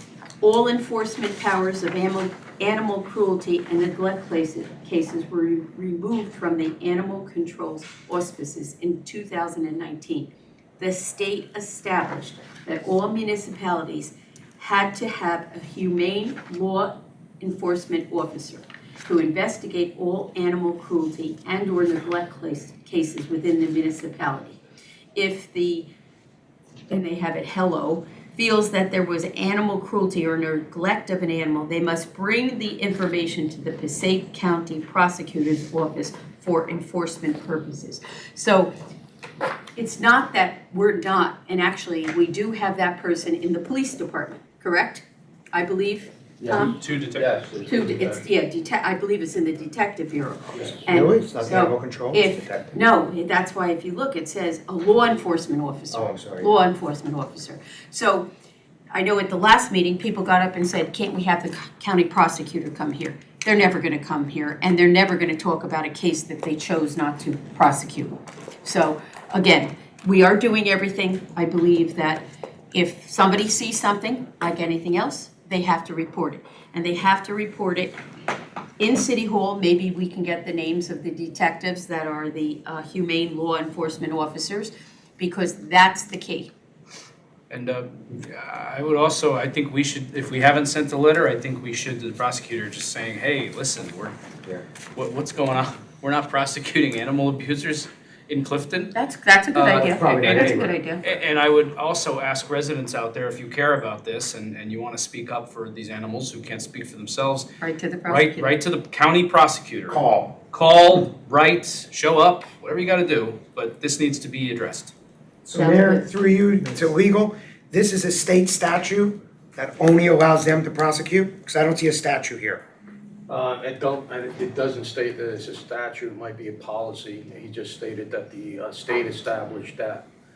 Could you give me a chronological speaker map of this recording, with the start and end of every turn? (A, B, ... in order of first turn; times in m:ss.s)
0:00.4-0:24.6 A
0:25.2-0:25.9 A
0:26.9-0:38.7 A
0:39.8-0:46.8 A
0:46.6-0:47.4 B
0:47.2-0:48.2 C
0:47.6-0:58.2 A
0:50.8-0:52.8 D
0:55.9-0:56.5 D
0:58.9-1:18.0 A
1:18.8-1:26.5 A
1:27.5-1:34.2 B
1:34.9-1:38.9 B
1:38.9-1:41.0 A
1:39.5-1:47.5 B
1:39.8-1:40.8 D
1:47.6-1:48.6 A
1:48.0-1:54.9 B
1:49.9-1:50.4 D
1:55.4-2:02.6 D
1:55.5-1:56.1 A
2:03.3-2:10.1 C